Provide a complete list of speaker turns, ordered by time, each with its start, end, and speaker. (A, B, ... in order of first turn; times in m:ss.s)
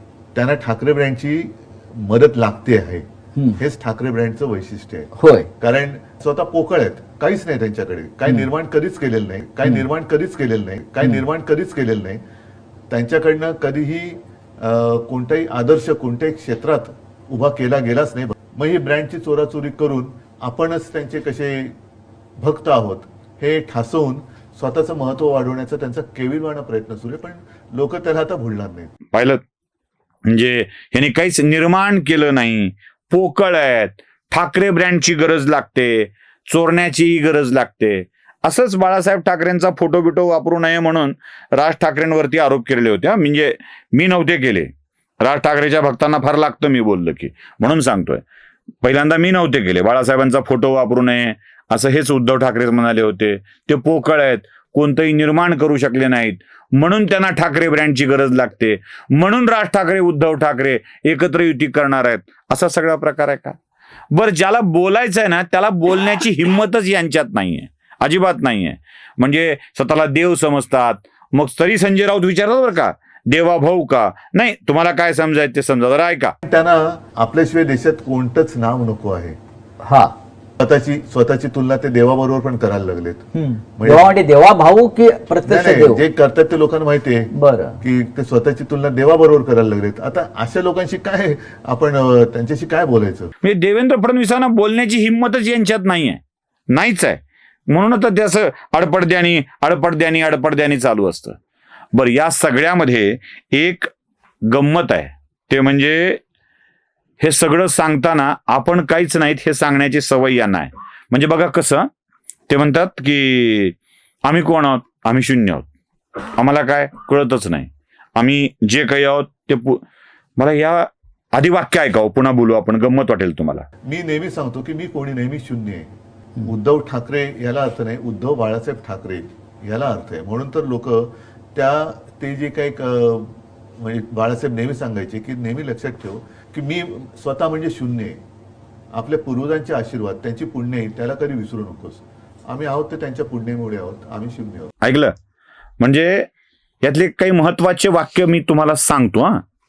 0:00.4-0:12.2 A
0:05.2-0:05.5 B
0:12.9-0:21.8 A
0:22.4-0:28.9 A
0:29.1-0:29.4 C
0:30.3-0:44.7 C
0:45.2-0:48.2 C
0:48.8-1:03.6 C
1:04.1-1:16.3 C
1:16.4-1:19.4 A
1:19.8-1:20.1 B
1:20.6-1:24.1 A
1:23.3-1:26.0 B
1:25.4-1:33.3 A
1:27.3-1:27.8 B
1:33.4-1:36.2 C
1:36.7-1:41.4 C
1:41.9-1:43.9 C
1:44.5-1:46.2 C
1:47.2-1:51.9 C
1:52.5-1:53.8 C
1:54.3-1:55.7 C
1:56.4-1:59.8 C
2:00.4-2:03.7 C
2:03.8-2:05.9 A
2:06.4-2:18.2 A
2:18.9-2:24.7 A
2:24.8-2:25.1 C
2:25.8-2:26.3 C
2:26.8-2:29.4 C